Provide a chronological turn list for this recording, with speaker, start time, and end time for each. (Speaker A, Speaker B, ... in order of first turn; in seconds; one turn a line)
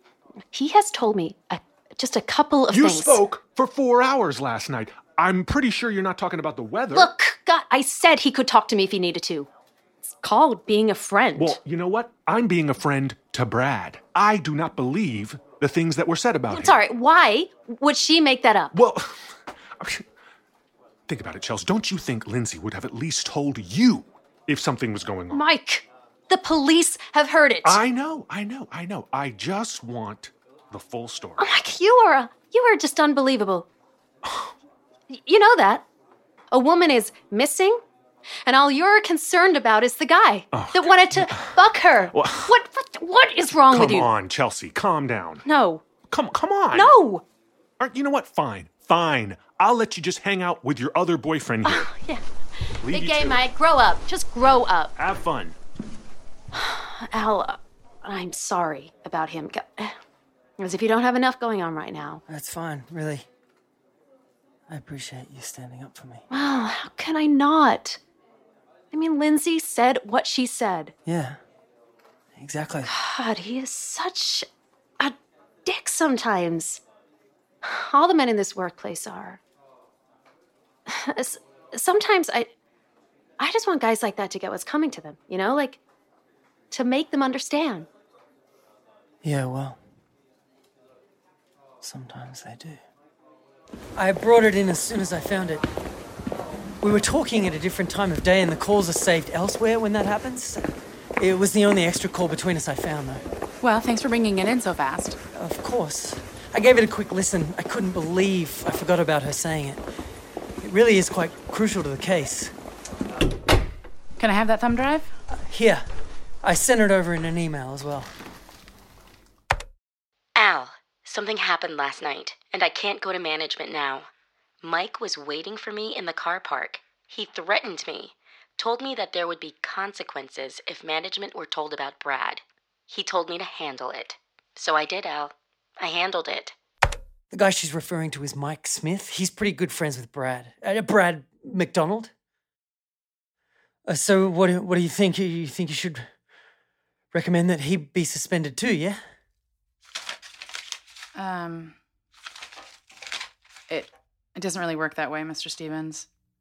Speaker A: 0.5-3.2
Speaker B: 2.7-7.1
Speaker A: 6.9-9.5
Speaker A: 10.0-11.6
Speaker B: 11.3-16.8
Speaker A: 16.5-18.7
Speaker B: 18.7-20.1
Speaker B: 21.1-25.5
Speaker A: 25.3-27.8
Speaker B: 27.6-31.4
Speaker A: 31.4-33.7
Speaker B: 34.2-34.5
Speaker A: 35.1-35.8
Speaker A: 36.5-37.8
Speaker A: 38.4-44.1
Speaker B: 40.5-41.6
Speaker B: 42.1-42.5
Speaker B: 43.7-45.4
Speaker A: 45.4-45.8
Speaker B: 46.1-46.9
Speaker A: 46.7-47.2
Speaker B: 47.8-51.9
Speaker A: 51.6-52.2
Speaker B: 52.8-53.5
Speaker A: 52.8-54.9
Speaker B: 55.0-55.5
Speaker A: 56.5-60.0
Speaker A: 60.6-62.2
Speaker C: 62.3-63.3
Speaker C: 64.7-66.2
Speaker A: 66.3-68.0
Speaker A: 68.9-70.9
Speaker C: 71.0-71.4
Speaker C: 72.3-72.9
Speaker A: 72.8-74.5
Speaker A: 75.0-76.8
Speaker A: 77.6-79.4
Speaker A: 80.9-82.5
Speaker A: 83.4-85.8
Speaker A: 86.7-87.9
Speaker C: 89.2-89.8
Speaker C: 91.8-92.8
Speaker C: 94.0-95.6
Speaker C: 96.8-100.7
Speaker C: 101.2-103.2
Speaker D: 103.6-105.2
Speaker C: 105.3-109.8
Speaker C: 110.6-112.5
Speaker D: 114.2-115.1
Speaker C: 115.3-115.8
Speaker C: 116.4-118.1
Speaker E: 120.3-124.1
Speaker E: 124.6-136.5
Speaker C: 137.3-142.1
Speaker C: 143.8-146.1
Speaker C: 147.1-149.0
Speaker D: 151.1-151.8
Speaker D: 153.7-156.1